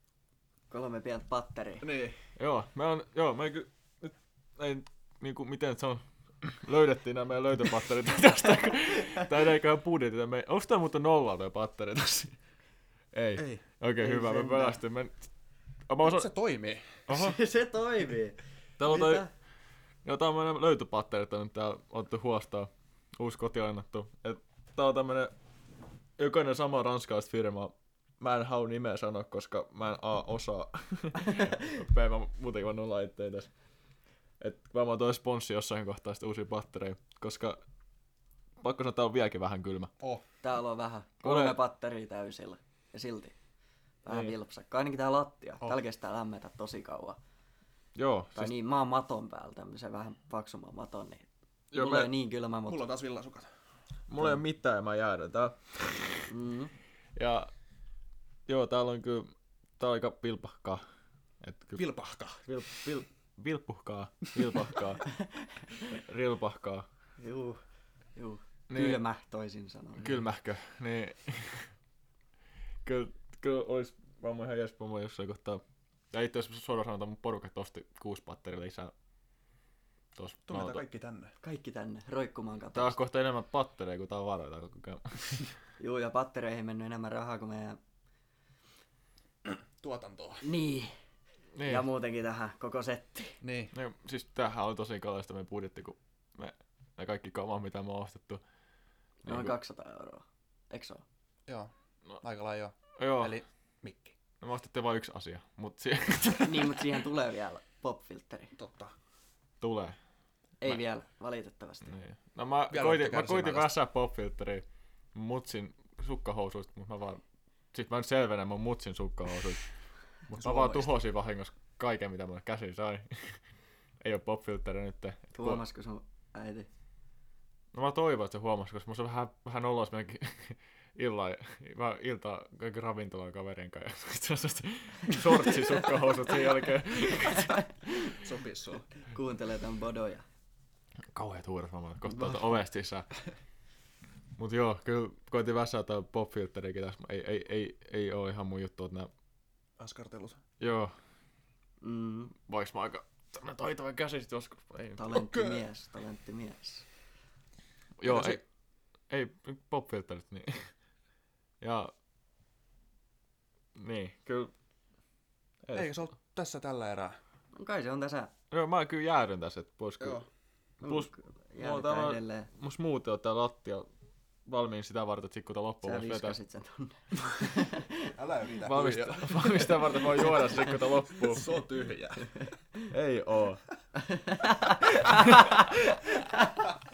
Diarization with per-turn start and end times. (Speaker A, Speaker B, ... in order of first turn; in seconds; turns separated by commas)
Speaker A: 0.7-1.9, Speaker B: 1.8-2.2, Speaker C: 2.4-12.4, Speaker C: 13.1-15.3, Speaker B: 13.3-13.6, Speaker A: 14.0-14.8, Speaker C: 15.9-16.3, Speaker B: 16.0-17.1, Speaker C: 17.1-17.4, Speaker A: 17.1-19.3, Speaker C: 18.8-19.2, Speaker C: 20.0-25.3, Speaker C: 26.2-33.5, Speaker C: 34.4-37.6, Speaker C: 38.6-39.9, Speaker A: 40.4-43.3, Speaker C: 41.2-41.6, Speaker A: 44.0-47.2, Speaker C: 44.1-44.3, Speaker C: 47.9-48.5, Speaker A: 48.3-52.8, Speaker C: 51.7-52.1, Speaker B: 52.6-53.5, Speaker C: 54.1-56.3, Speaker A: 56.3-56.7, Speaker C: 57.1-57.5, Speaker C: 58.5-60.8, Speaker C: 61.4-61.8, Speaker B: 61.8-62.4, Speaker C: 62.4-65.1, Speaker C: 65.9-66.8, Speaker A: 67.2-67.6, Speaker A: 68.2-70.2, Speaker C: 68.7-69.0, Speaker C: 70.0-71.7, Speaker C: 72.8-78.9, Speaker C: 80.2-80.8, Speaker B: 80.5-81.3, Speaker A: 81.4-83.0, Speaker C: 82.7-85.4, Speaker A: 85.8-87.8, Speaker B: 89.5-90.5, Speaker A: 90.4-90.9, Speaker C: 91.5-91.9, Speaker A: 91.6-93.4, Speaker B: 93.4-93.7, Speaker C: 93.7-98.4, Speaker C: 99.2-99.6, Speaker A: 99.2-101.0, Speaker B: 101.5-104.2, Speaker C: 103.0-103.3, Speaker C: 104.4-106.9, Speaker A: 106.4-108.5, Speaker B: 108.5-108.9, Speaker C: 109.6-110.0, Speaker A: 110.6-111.9, Speaker C: 111.8-119.6, Speaker B: 112.7-113.7, Speaker C: 120.3-123.4, Speaker B: 120.3-121.0, Speaker C: 124.0-125.6, Speaker A: 125.3-126.7, Speaker C: 127.7-137.6, Speaker A: 137.2-138.1, Speaker B: 138.0-138.9, Speaker A: 139.1-140.2, Speaker C: 141.1-143.1, Speaker C: 144.4-149.1, Speaker B: 149.8-150.4, Speaker C: 150.6-150.9, Speaker A: 151.8-152.3, Speaker C: 152.5-155.2, Speaker A: 155.0-156.8, Speaker B: 155.1-155.6, Speaker C: 158.0-158.4, Speaker B: 158.0-158.4, Speaker C: 159.1-160.7, Speaker C: 161.6-161.9, Speaker C: 163.7-164.5, Speaker C: 165.6-165.9, Speaker B: 165.7-167.2, Speaker A: 167.5-168.3, Speaker C: 168.5-170.3, Speaker B: 170.0-170.3, Speaker C: 170.8-173.9, Speaker A: 170.8-172.5, Speaker C: 174.4-176.3, Speaker A: 175.8-178.1, Speaker B: 178.1-182.6, Speaker C: 178.6-181.4, Speaker C: 182.9-183.6, Speaker A: 184.0-186.5